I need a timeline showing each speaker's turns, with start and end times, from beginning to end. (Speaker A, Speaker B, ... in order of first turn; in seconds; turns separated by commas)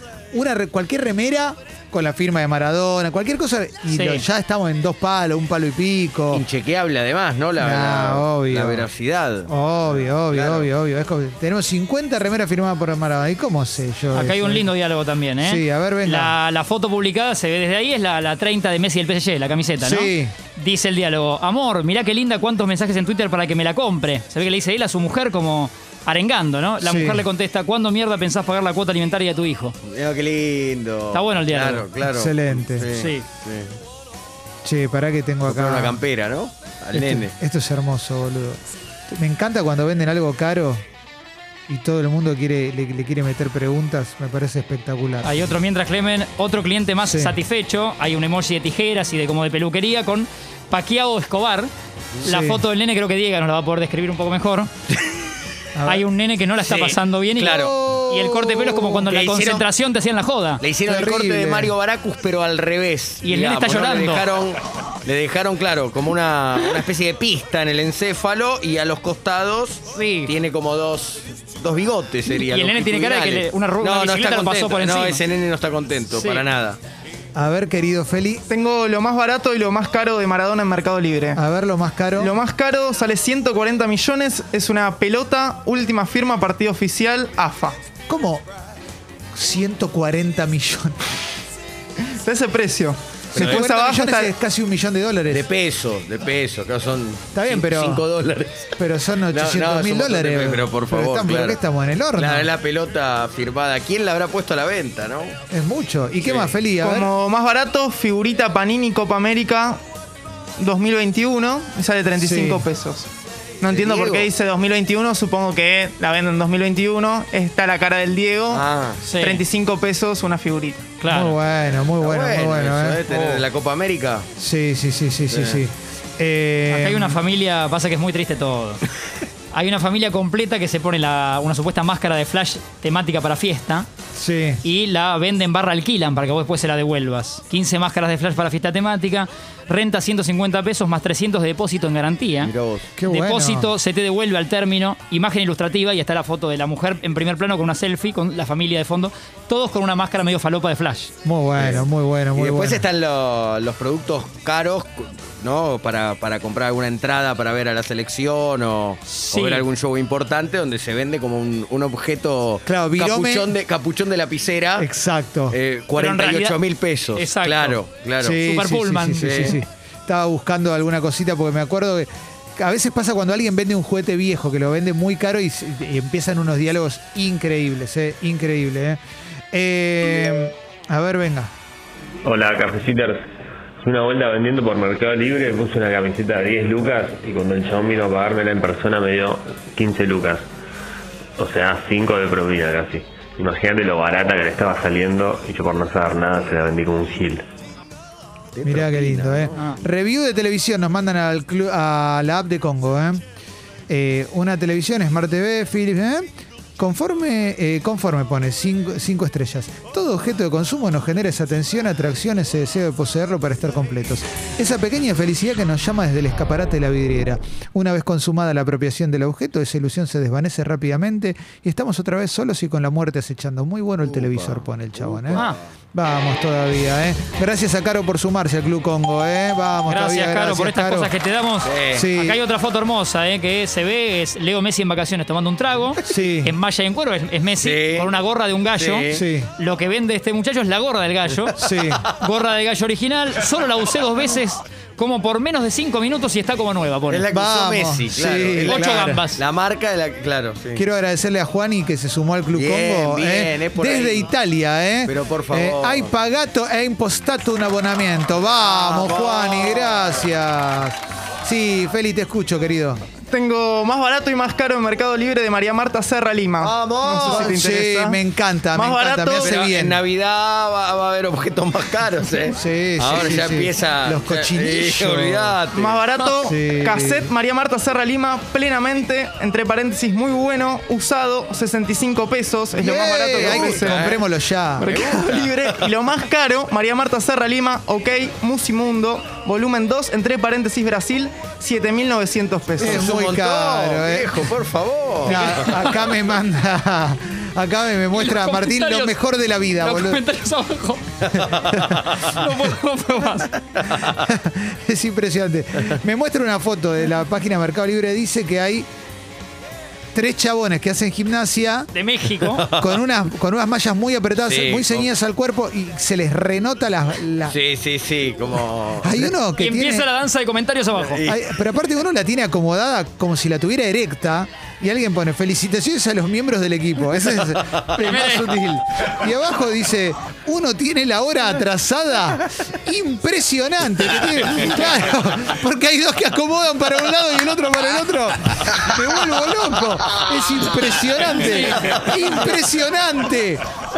Speaker A: 0.3-6.4, Speaker B: 3.9-4.2, Speaker C: 6.3-10.7, Speaker A: 7.6-8.9, Speaker A: 9.5-14.7, Speaker B: 14.1-29.8, Speaker A: 15.4-16.4, Speaker A: 19.8-20.3, Speaker A: 26.8-27.2, Speaker C: 29.9-33.8, Speaker B: 31.1-31.9, Speaker A: 32.0-32.9, Speaker B: 32.9-33.2, Speaker A: 34.6-36.0, Speaker C: 35.5-37.3, Speaker A: 36.9-38.6, Speaker A: 39.1-40.8, Speaker A: 41.7-45.4, Speaker B: 45.2-51.7, Speaker A: 47.0-47.4, Speaker B: 52.2-54.7, Speaker A: 52.2-52.6, Speaker A: 55.8-56.1, Speaker B: 55.9-60.6, Speaker C: 56.6-57.7, Speaker A: 57.5-59.0, Speaker C: 59.1-59.7, Speaker C: 60.6-76.8, Speaker A: 60.9-61.7, Speaker B: 63.2-64.3, Speaker B: 69.9-70.3, Speaker B: 72.2-75.2, Speaker B: 76.1-76.5, Speaker A: 77.3-78.4, Speaker D: 78.5-81.4, Speaker A: 81.3-82.3, Speaker D: 82.2-87.8, Speaker A: 88.1-88.4, Speaker A: 89.3-91.0, Speaker D: 92.0-94.3, Speaker C: 93.3-93.7, Speaker A: 93.3-95.5, Speaker C: 95.3-98.7, Speaker A: 97.3-98.0, Speaker A: 98.8-102.5, Speaker C: 99.3-101.6, Speaker C: 102.2-105.4, Speaker A: 105.5-107.1, Speaker C: 106.2-106.6, Speaker D: 106.8-109.8, Speaker D: 110.6-113.1, Speaker A: 112.1-112.6, Speaker D: 113.6-118.6, Speaker C: 113.6-114.3, Speaker C: 118.5-119.0, Speaker B: 119.0-119.4, Speaker D: 119.2-121.0, Speaker B: 121.0-121.4, Speaker A: 121.1-123.0, Speaker C: 121.8-124.3, Speaker B: 123.1-123.4, Speaker A: 124.4-127.2, Speaker C: 125.3-125.6, Speaker B: 126.7-128.8, Speaker B: 129.5-133.9, Speaker A: 134.1-134.6, Speaker B: 134.6-142.5, Speaker C: 142.4-142.9, Speaker A: 143.0-143.7, Speaker B: 143.1-151.1, Speaker A: 151.2-152.8, Speaker C: 151.6-164.9, Speaker B: 159.1-159.6, Speaker A: 162.7-163.5, Speaker A: 164.8-165.6, Speaker C: 165.5-168.4, Speaker B: 165.9-167.8, Speaker A: 168.2-179.0, Speaker B: 168.4-169.6, Speaker C: 169.2-169.6, Speaker A: 179.5-181.5, Speaker E: 182.2-183.2, Speaker E: 183.8-190.4, Speaker E: 191.4-197.4, Speaker C: 198.6-199.7, Speaker A: 198.6-203.2, Speaker A: 203.9-231.1, Speaker C: 224.1-225.6, Speaker B: 225.3-225.6, Speaker B: 229.9-247.3, Speaker C: 231.7-232.0, Speaker A: 231.9-232.4, Speaker A: 236.0-236.6, Speaker C: 237.6-238.1, Speaker C: 238.8-239.2, Speaker A: 239.1-239.5, Speaker A: 241.6-242.0, Speaker C: 247.1-250.8, Speaker A: 247.3-249.2, Speaker B: 248.6-249.4, Speaker A: 250.8-263.0, Speaker C: 252.5-254.3, Speaker C: 255.1-256.1, Speaker C: 258.6-260.2, Speaker D: 263.3-269.5, Speaker C: 266.6-267.6, Speaker A: 267.2-270.0, Speaker C: 269.4-276.0, Speaker A: 272.5-275.6, Speaker D: 275.7-284.1, Speaker A: 276.4-277.3, Speaker A: 282.8-285.0, Speaker C: 283.4-284.2, Speaker D: 284.8-293.1, Speaker C: 284.8-285.8, Speaker A: 292.8-294.5, Speaker C: 292.8-295.7, Speaker A: 295.2-300.2, Speaker B: 295.3-296.1, Speaker B: 298.1-299.2, Speaker B: 299.8-303.6, Speaker A: 301.5-302.2, Speaker A: 303.8-308.9, Speaker A: 310.1-311.9, Speaker B: 311.9-312.7, Speaker C: 312.6-312.9, Speaker A: 312.7-317.6, Speaker C: 314.4-315.1, Speaker C: 317.5-319.2, Speaker A: 319.0-320.1, Speaker B: 319.5-321.2, Speaker A: 321.2-343.6, Speaker B: 328.0-328.6, Speaker B: 341.4-342.6